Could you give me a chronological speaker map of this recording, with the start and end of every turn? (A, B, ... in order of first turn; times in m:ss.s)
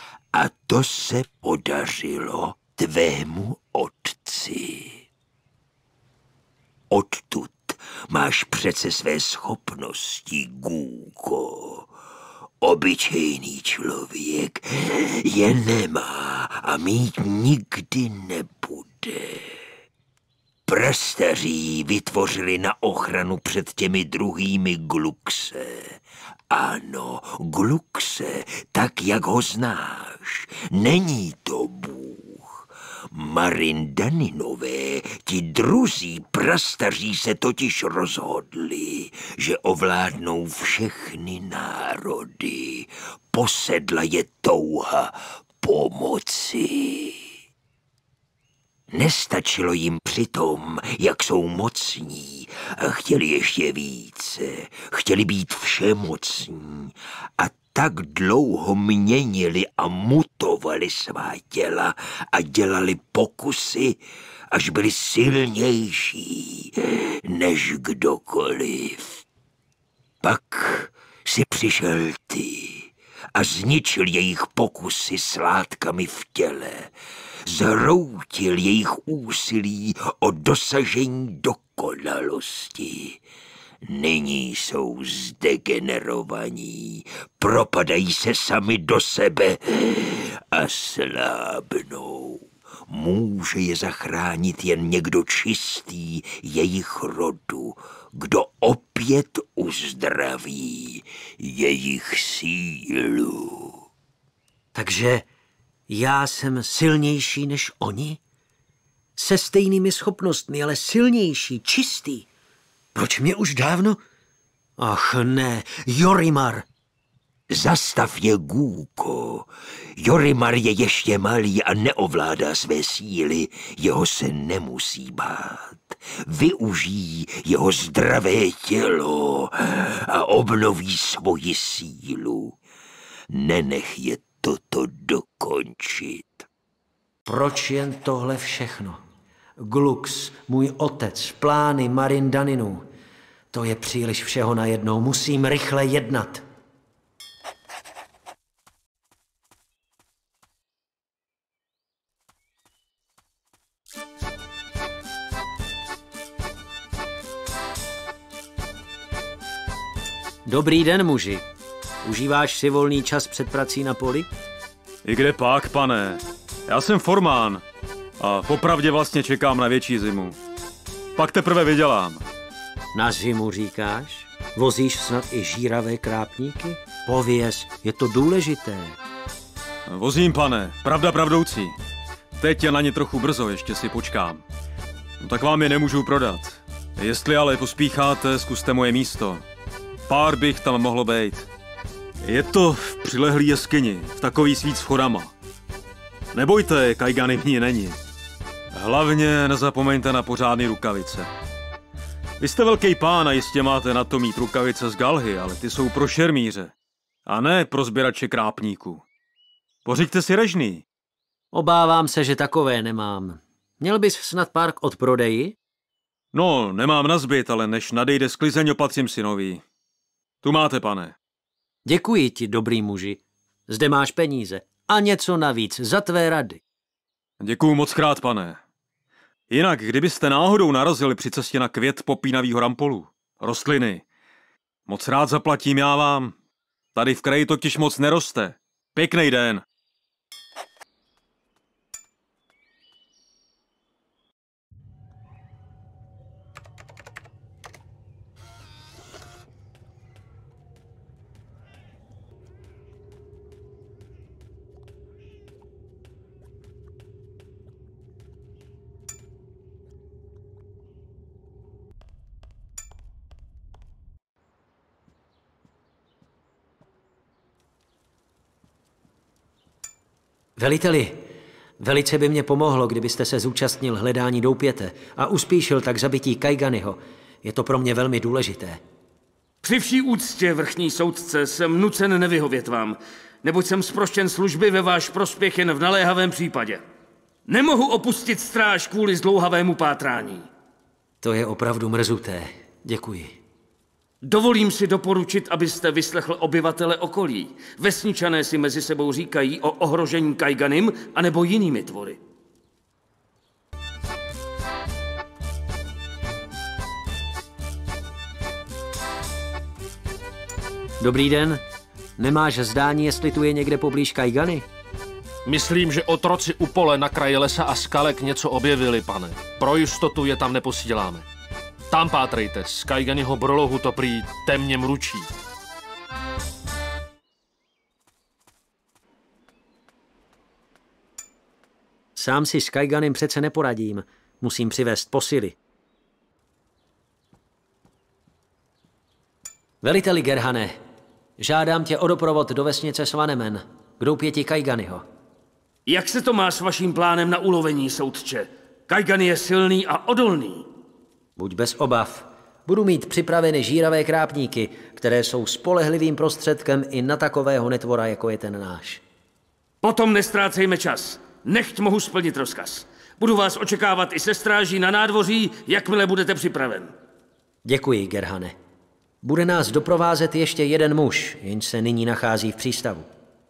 0:00.3-0:05.0 A
0:06.9-0:11.9 A
0:12.6-0:19.6 A
0:20.7-0:47.3 A
0:48.9-1:04.0 A
1:04.5-1:09.2 A
1:10.2-1:16.9 A
1:17.5-1:23.2 A
1:23.9-1:43.8 A
1:44.7-1:45.2 B
1:45.9-1:48.2 B
1:49.2-1:52.3 B
1:52.9-1:54.0 B
1:54.8-1:56.6 B
1:57.5-2:12.6 A
2:13.3-2:16.4 A
2:17.2-2:19.0 B
2:19.6-2:22.8 B
2:23.5-2:26.4 B
2:40.4-2:41.4 B
2:42.0-2:44.3 B
2:45.0-2:47.6 C
2:48.2-2:50.4 C
2:51.2-2:52.2 C
2:52.9-2:59.0 B
2:59.9-3:01.7 C
3:02.4-3:04.4 C
3:05.2-3:09.4 C
3:10.1-3:11.5 C
3:12.2-3:15.3 C
3:16.3-3:18.0 C
3:18.7-3:21.3 C
3:22.4-3:26.7 C
3:27.3-3:29.0 C
3:29.8-3:30.8 C
3:31.5-3:35.6 B
3:36.3-3:39.6 C
3:40.4-3:41.1 C
3:41.8-3:46.6 B
3:47.4-3:48.6 C
3:49.5-3:54.0 C
3:54.9-3:56.3 C
3:56.9-3:59.6 C
4:30.6-4:31.3 B
4:31.8-4:38.8 B
4:39.6-4:46.8 D
4:47.5-4:50.5 D
4:51.2-4:53.4 B
4:54.2-5:02.2 D
5:11.0-5:11.6 B
5:12.2-5:14.7 B
5:15.4-5:21.2 E
5:21.9-5:25.3 E
5:32.2-5:35.6 B
5:39.8-5:40.8 B
5:41.4-5:45.0 B
5:45.9-5:50.6 D
5:51.4-5:59.0 B
5:59.8-6:06.9 D
6:07.6-6:08.5 B
6:09.2-6:13.1 B